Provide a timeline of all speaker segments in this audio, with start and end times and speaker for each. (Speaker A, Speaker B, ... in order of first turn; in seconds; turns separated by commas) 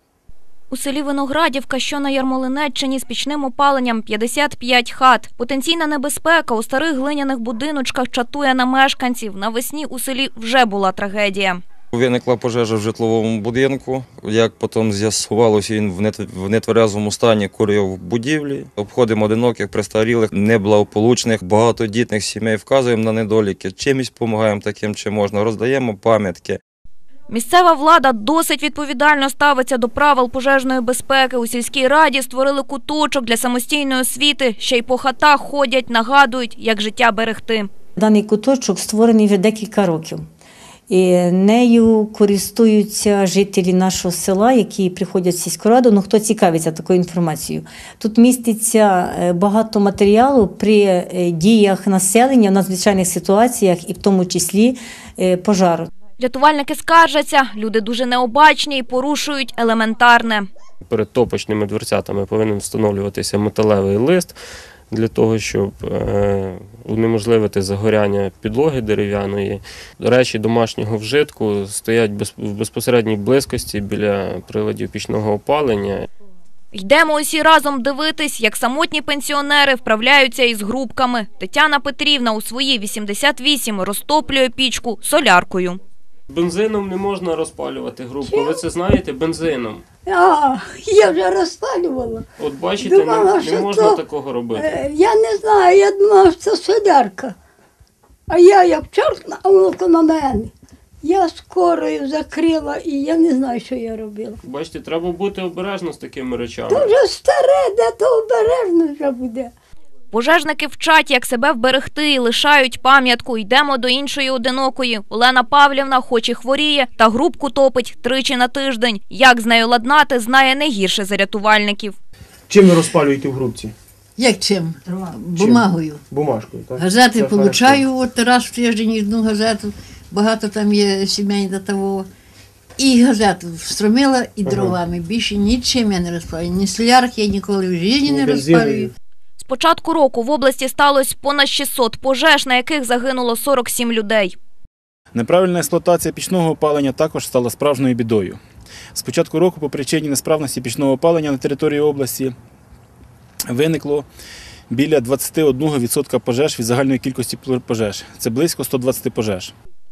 Speaker A: 0.7-11.6, Speaker B: 11.9-26.6, Speaker A: 27.3-37.7, Speaker C: 38.0-40.2, Speaker C: 40.9-55.9, Speaker A: 56.2-60.5, Speaker D: 60.8-64.3, Speaker D: 64.9-76.1, Speaker A: 76.7-85.8, Speaker D: 86.3-89.9, Speaker E: 88.2-88.7, Speaker E: 90.0-92.2, Speaker D: 92.4-94.6, Speaker E: 92.8-97.3, Speaker E: 98.3-100.5, Speaker E: 101.0-104.4, Speaker D: 104.5-106.9, Speaker E: 106.7-109.5, Speaker A: 110.1-121.9, Speaker F: 122.5-123.7, Speaker G: 124.2-126.0, Speaker F: 125.4-127.8, Speaker G: 126.8-132.1, Speaker G: 132.8-138.9, Speaker F: 138.1-138.9, Speaker A: 139.4-144.3, Speaker H: 145.1-148.4, Speaker H: 148.9-152.3, Speaker H: 153.5-154.1, Speaker H: 154.7-159.5